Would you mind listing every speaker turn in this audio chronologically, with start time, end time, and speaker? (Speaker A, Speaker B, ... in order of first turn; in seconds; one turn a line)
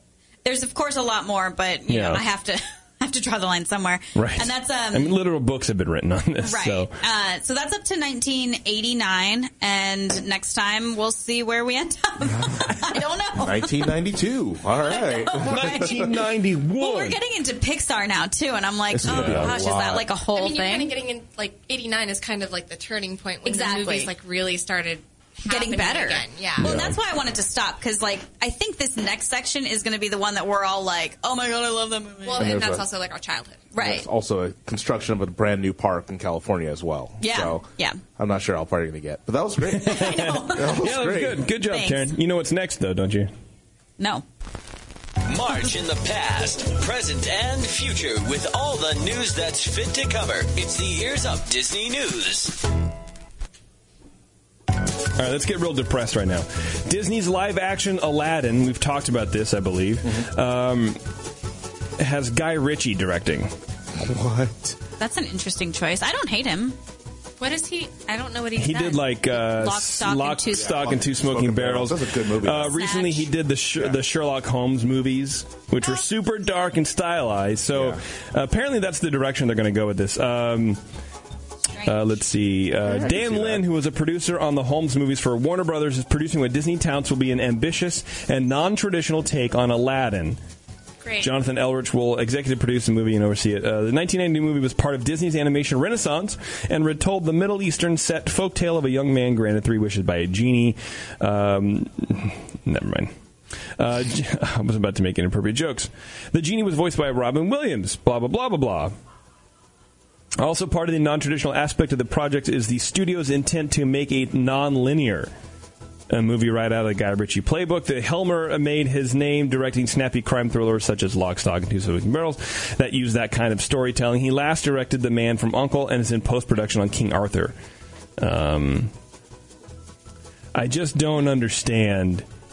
Speaker A: 0.4-5.2
Speaker B: 1.9-2.2
Speaker B: 4.2-6.9
Speaker A: 6.4-13.9
Speaker C: 12.3-12.7
Speaker C: 13.4-16.1
Speaker A: 14.8-16.2
Speaker B: 15.4-17.2
Speaker A: 16.8-20.9
Speaker C: 18.9-20.1
Speaker B: 19.0-19.6
Speaker D: 19.8-26.7
Speaker A: 23.4-24.1
Speaker A: 25.5-32.6
Speaker B: 26.6-27.0
Speaker D: 32.2-33.7
Speaker C: 32.4-32.9
Speaker A: 33.7-34.1
Speaker C: 33.8-37.6
Speaker A: 37.2-38.0
Speaker C: 38.2-41.5
Speaker B: 39.8-43.3
Speaker A: 39.8-40.9
Speaker A: 41.6-42.1
Speaker A: 44.0-44.2
Speaker E: 45.2-52.6
Speaker B: 55.1-61.0
Speaker B: 62.0-63.5
Speaker C: 64.0-64.8
Speaker A: 65.0-66.8
Speaker D: 67.4-69.1
Speaker B: 68.6-80.8
Speaker A: 69.3-70.9
Speaker C: 70.5-72.8
Speaker A: 72.7-73.3
Speaker C: 77.7-78.0
Speaker B: 81.8-90.4
Speaker C: 82.8-83.6
Speaker D: 91.0-91.3
Speaker B: 91.2-103.1
Speaker B: 103.8-108.9
Speaker B: 110.4-115.3
Speaker B: 116.1-127.5
Speaker B: 128.2-128.9
Speaker B: 130.6-132.2